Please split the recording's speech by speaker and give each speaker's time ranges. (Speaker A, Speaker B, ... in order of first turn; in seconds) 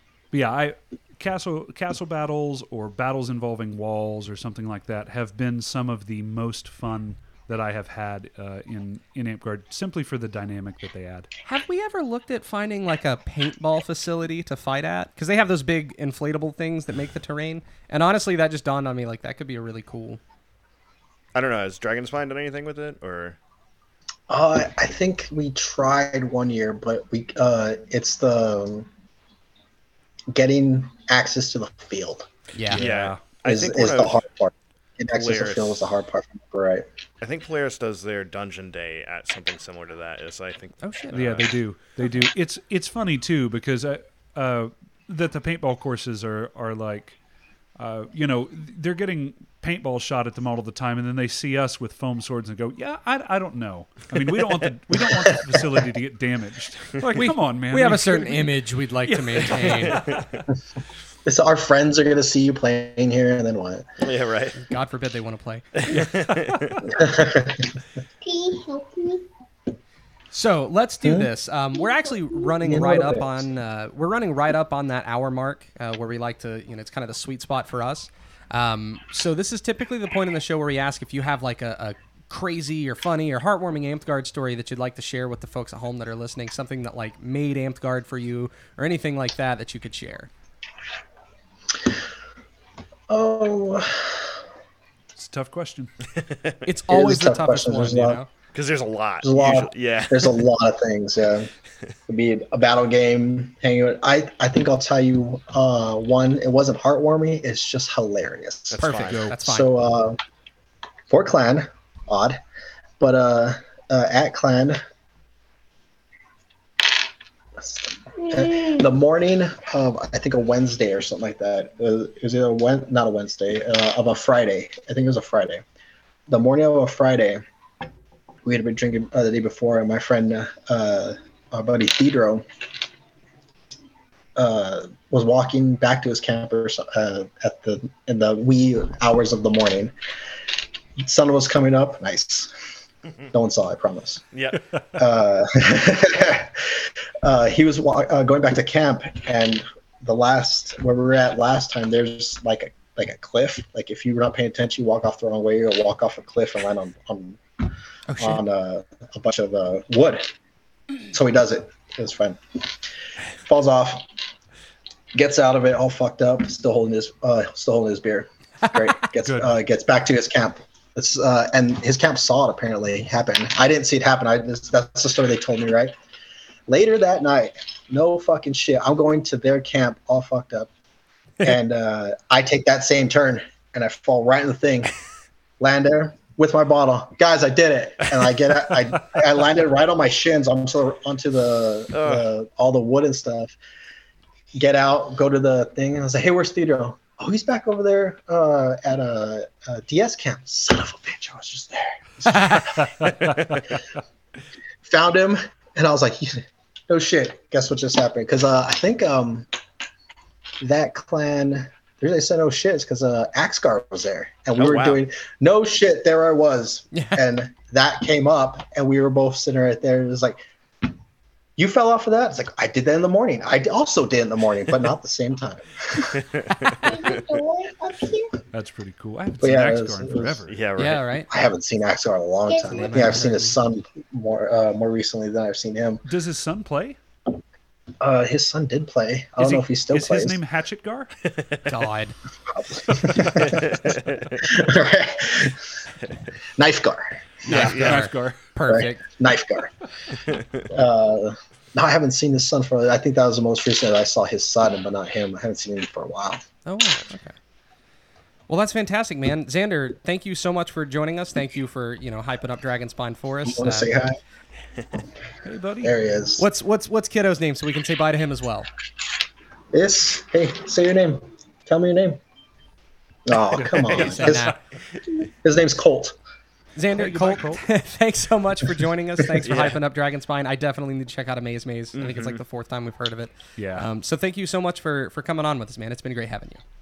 Speaker A: 0.3-11.3, 32.7-33.2, 41.1-47.2, 47.8-58.5, 59.1-60.5, 65.9-66.9, 95.2-95.9, 169.2-169.5, 228.5-230.6, 236.1-237.0, 239.4-241.1, 247.5-248.4, 265.4-265.9, 273.5-274.5, 276.9-277.6, 283.6-283.9
Speaker B: 11.4-20.2, 32.5-32.8, 40.8-41.4, 57.2-60.0, 64.6-65.7, 70.3-90.3, 96.7-98.3, 108.8-109.7, 216.9-217.2, 230.8-231.3, 232.7-233.6, 241.7-242.2, 247.5-249.0, 256.6-257.3, 258.5-263.9, 266.4-268.7, 273.9-274.6, 276.8-286.6
Speaker C: 21.3-23.4, 32.7-34.2, 35.1-36.0, 37.2-41.5, 59.9-60.2, 64.0-64.6, 65.8-66.8, 96.2-96.6, 98.5-100.4, 108.7-109.2, 144.3-144.7, 191.9-192.3, 203.0-203.6, 214.6-215.0, 226.2-227.3, 230.5-231.0, 243.2-244.4, 247.5-248.1, 250.2-250.7, 279.4-279.8, 281.9-282.4
Speaker D: 24.3-28.9, 30.3-32.3, 33.5-36.9, 55.0-55.5, 61.2-63.9, 66.8-67.8, 71.0-71.3, 72.6-73.5, 93.1-94.3, 96.9-98.2, 99.2-101.5, 102.1-110.2, 111.1-112.4, 113.0-114.8, 117.6-125.6, 126.3-127.4, 128.4-132.4, 134.4-139.9, 141.0-142.5, 143.3-144.2, 145.0-157.4, 158.2-160.3, 161.1-162.4, 163.4-164.1, 165.1-175.9, 176.7-180.7, 181.4-184.9, 185.6-193.6, 194.5-203.1, 204.8-209.5, 210.6-220.4, 221.6-226.2, 229.4-230.4, 231.3-236.0, 238.0-240.4, 242.5-243.8, 244.4-245.6, 246.6-247.7, 248.7-249.7, 250.7-256.4, 263.4-264.2, 265.8-266.4, 269.7-272.2, 273.3-274.6, 275.4-276.2
Speaker E: 68.2-69.2, 226.8-228.3, 232.5-233.2